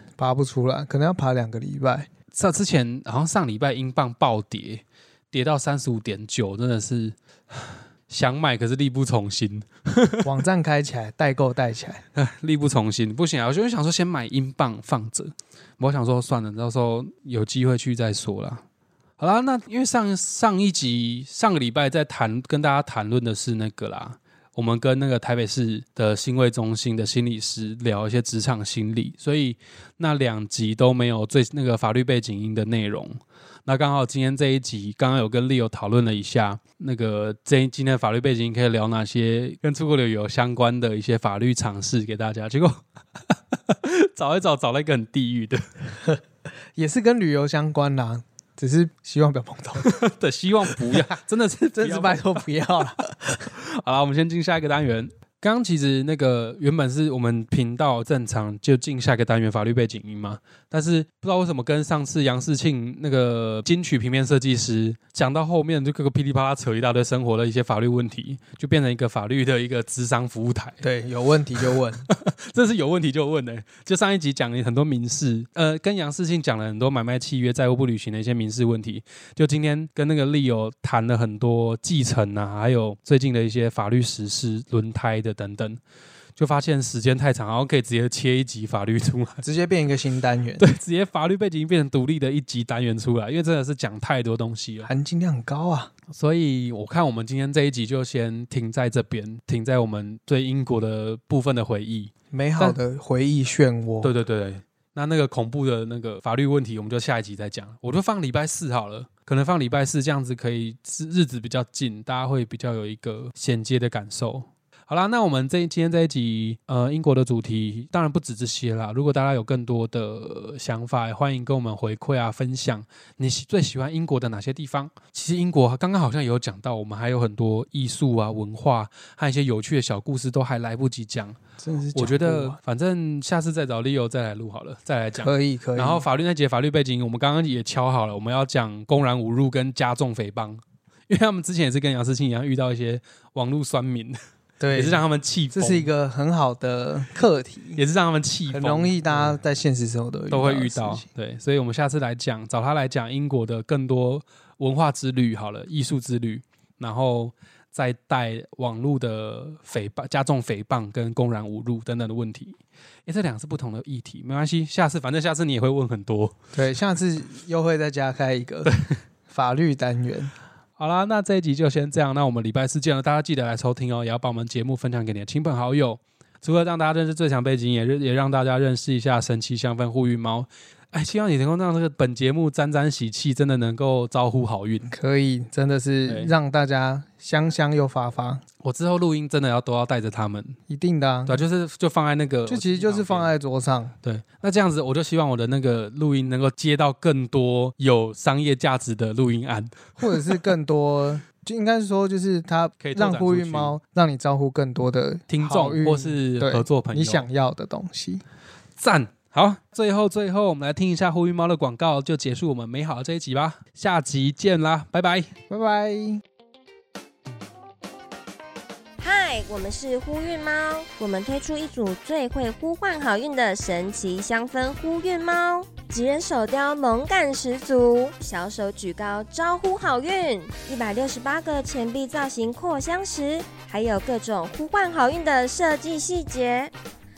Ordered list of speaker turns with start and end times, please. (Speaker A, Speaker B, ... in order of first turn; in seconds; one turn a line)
Speaker A: 0.2-2.1
Speaker B: 2.3-10.3
Speaker A: 10.2-12.0
Speaker B: 12.2-18.6
Speaker B: 19.2-45.6
Speaker A: 46.8-49.9
Speaker B: 49.8-52.5
Speaker A: 50.7-51.1
Speaker A: 51.8-53.4
Speaker B: 53.4-70.8
Speaker A: 70.8-72.1
Speaker B: 72.1-85.8
Speaker B: 86.4-89.4
Speaker A: 89.4-90.6
Speaker B: 90.6-94.9
Speaker A: 94.8-95.9
Speaker B: 96.1-102.8
Speaker A: 102.3-104.1
Speaker B: 104.0-131.4
Speaker A: 131.6-132.6
Speaker B: 131.9-144.2
Speaker A: 135.2-136.1
Speaker A: 144.6-147.8
Speaker B: 144.7-145.9
Speaker B: 147.8-149.4
Speaker A: 148.5-151.1
Speaker B: 150.3-166.3
Speaker A: 166.5-168.7
Speaker B: 168.7-168.9
Speaker A: 169.3-170.3
Speaker B: 170.8-184.9
Speaker A: 184.9-188.4
Speaker B: 186.1-186.3
Speaker B: 188.6-190.6
Speaker A: 190.7-191.4
Speaker B: 191.3-193.3
Speaker A: 192.5-193.9
Speaker B: 194.0-200.3
Speaker A: 200.0-208.2
Speaker B: 202.8-203.8
Speaker B: 205.3-207.3
Speaker B: 208.8-215.3
Speaker A: 215.5-216.2
Speaker C: 219.0-236.7